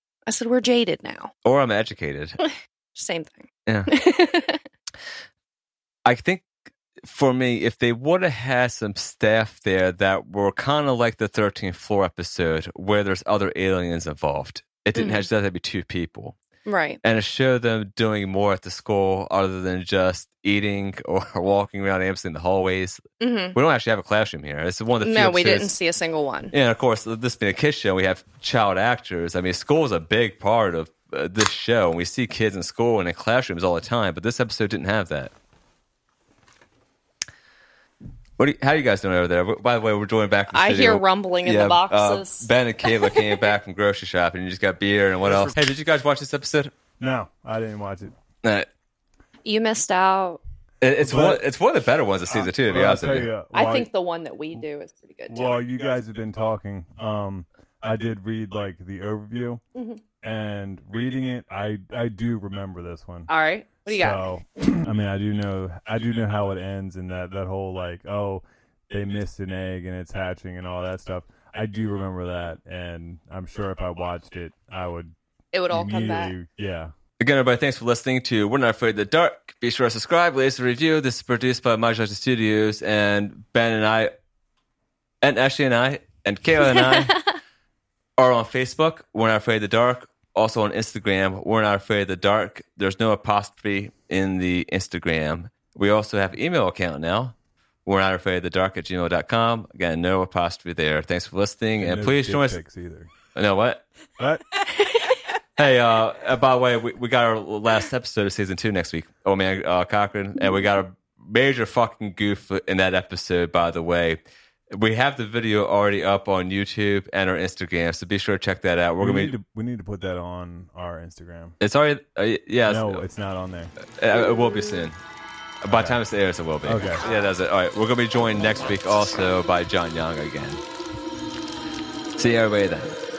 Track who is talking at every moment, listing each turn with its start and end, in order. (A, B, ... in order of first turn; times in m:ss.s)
0:00.3-0:01.3 A
0:01.4-0:02.4 B
0:02.4-0:04.6 A
0:03.7-0:03.9 B
0:06.1-0:06.5 B
0:07.0-0:16.4 B
0:15.0-0:15.3 A
0:16.7-0:17.0 A
0:17.0-0:23.0 B
0:23.2-0:23.6 A
0:23.5-0:25.7 B
0:25.0-0:26.5 A
0:26.5-0:35.3 B
0:38.4-0:46.7 B
0:40.5-0:43.2 A
0:45.2-0:45.6 C
0:47.0-0:48.1 C
0:48.4-0:48.7 B
0:49.4-0:50.4 A
0:50.8-0:53.3 B
0:51.0-0:51.4 C
0:52.3-0:53.9 C
0:53.5-0:55.6 A
0:55.3-0:59.6 C
0:59.8-1:00.0 A
1:00.2-1:03.3 C
1:03.3-1:04.3 A
1:03.8-1:15.2 C
1:15.5-1:16.3 A
1:15.7-1:16.9 C
1:17.2-1:24.1 B
1:25.2-1:27.2 B
1:28.2-1:42.6 B
1:41.8-1:43.1 C
1:43.4-1:43.9 B
1:44.2-1:44.4 C
1:45.6-1:54.2 B
1:54.7-1:59.4 B
1:59.0-2:01.6 C
2:01.6-2:03.0 B
2:02.6-2:03.7 C
2:03.9-2:05.0 B
2:05.6-2:10.6 B
2:05.7-2:06.0 C
2:06.6-2:07.0 C
2:12.2-2:13.0 B